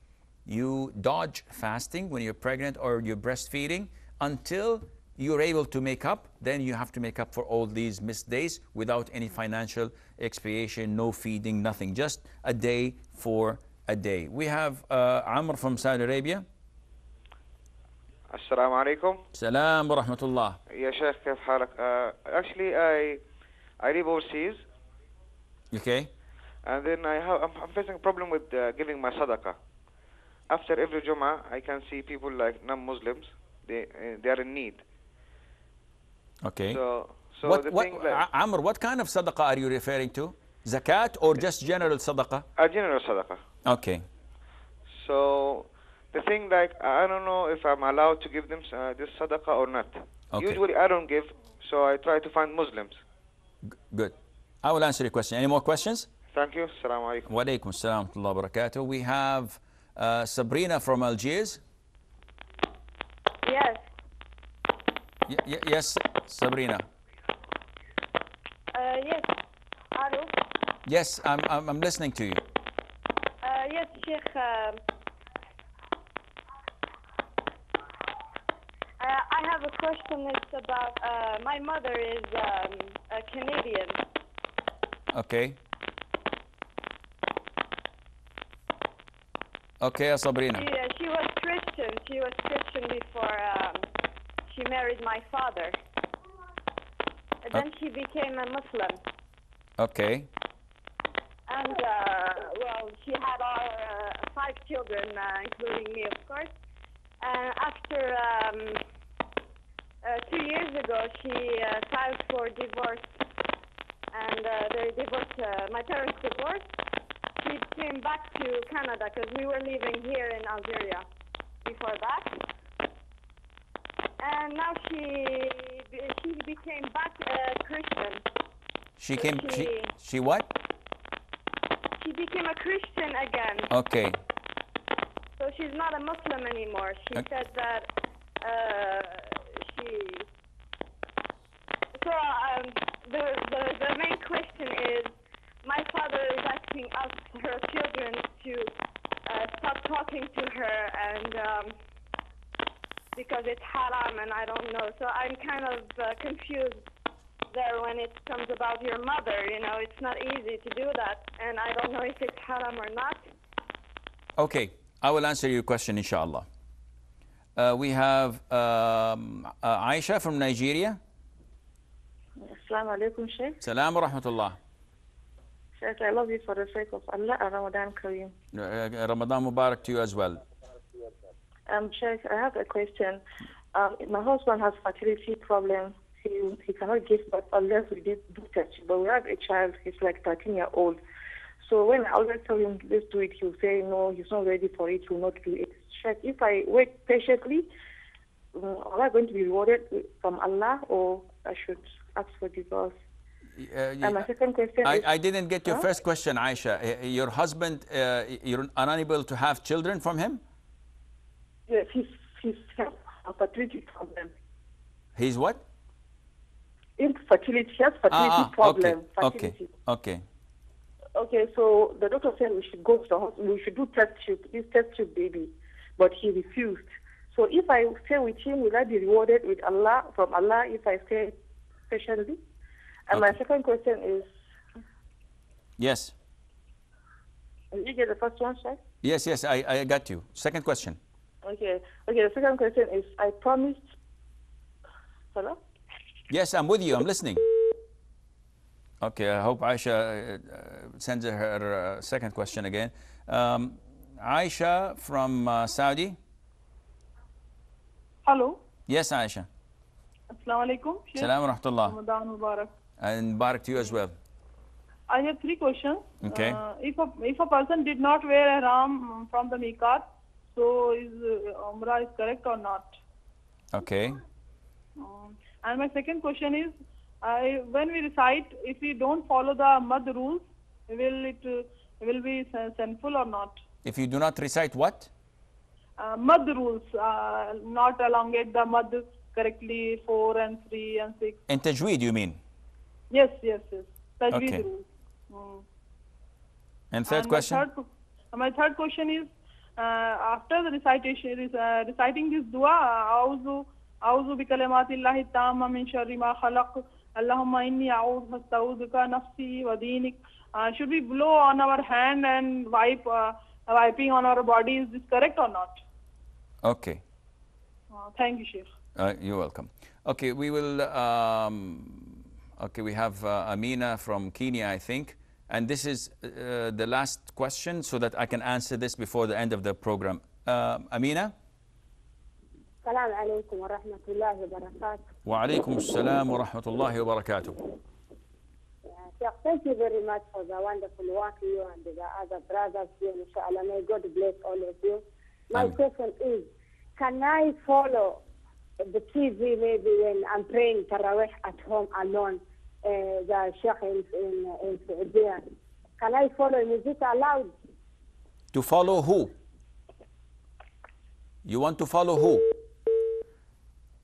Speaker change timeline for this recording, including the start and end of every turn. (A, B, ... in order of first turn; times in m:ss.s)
0:00.4-0:16.4 A
0:18.3-0:19.2 B
0:19.3-0:20.6 A
0:20.7-0:23.2 B
0:23.8-0:24.6 B
0:25.7-0:26.1 A
0:26.6-0:29.6 B
0:30.5-0:34.8 B
0:36.4-0:36.8 A
0:36.7-0:38.2 B
0:37.4-0:42.4 A
0:42.6-0:43.4 B
0:43.6-0:44.0 A
0:44.9-0:53.0 B
0:50.3-0:50.6 A
0:53.9-0:56.1 A
0:56.3-0:57.3 B
0:57.2-1:01.6 A
1:03.4-1:03.8 C
1:05.3-1:06.8 A
1:08.7-1:09.3 C
1:09.9-1:10.3 C
1:10.8-1:12.4 A
1:13.4-1:14.8 C
1:19.0-1:24.0 C
1:25.1-1:25.6 A
1:29.8-1:30.6 A
1:30.5-1:33.9 C
1:34.5-1:35.8 C
1:37.4-1:39.0 C
1:39.8-1:40.3 A
1:41.5-1:46.5 C
1:47.2-1:48.8 C
1:50.0-1:53.0 C
1:54.1-1:56.6 C
1:57.4-2:01.0 C
2:01.6-2:02.4 C
2:04.2-2:08.2 C
2:09.0-2:10.5 A
2:09.1-2:09.9 C
2:12.0-2:13.7 C
2:13.7-2:14.2 A
2:15.4-2:17.9 C
2:18.4-2:20.3 C
2:22.0-2:28.7 C
2:29.2-2:31.8 C
2:33.1-2:36.8 C
2:37.5-2:43.2 C
2:44.4-2:46.4 A
2:47.6-2:51.0 A
2:52.4-2:53.6 D
2:53.6-2:54.6 A
2:55.8-2:58.3 D
2:58.5-3:00.4 A
3:01.7-3:03.2 D
3:03.7-3:11.0 D
3:11.6-3:17.7 D
3:18.5-3:22.9 D
3:23.6-3:24.3 A
3:24.0-3:25.1 D
3:24.8-3:30.4 A
3:31.7-3:34.3 D
3:35.2-3:35.6 A
3:37.0-3:39.7 D
3:38.1-3:40.2 A
3:41.1-3:51.4 D
3:51.9-3:52.4 D
3:53.1-3:54.3 D
3:53.1-3:53.3 A
3:55.8-3:56.1 A
3:57.7-3:58.8 D
3:59.0-4:01.0 A
4:01.4-4:03.9 D
4:05.3-4:05.6 D
4:06.3-4:07.4 A
4:09.0-4:16.2 A
4:18.2-4:18.6 E
4:18.9-4:19.5 A
4:20.3-4:21.3 E
4:21.2-4:22.0 A
4:21.8-4:22.7 E
4:23.0-4:24.1 A
4:25.1-4:33.0 E
4:26.2-4:26.6 A
4:33.7-4:34.2 A
4:35.0-4:43.6 E
4:43.8-4:45.1 A
4:46.0-4:51.4 E
4:51.5-4:52.4 A
4:53.1-4:55.6 E
4:54.3-4:54.6 A
4:56.9-4:57.6 A
4:57.1-5:15.8 E
5:16.6-5:17.0 A
5:17.9-5:18.7 E
5:19.0-5:31.3 A
5:32.8-5:35.1 F
5:35.2-5:37.6 A
5:39.0-5:48.2 F
5:48.8-5:55.4 F
5:56.0-5:57.5 F
5:58.5-5:59.3 A
6:01.4-6:02.5 A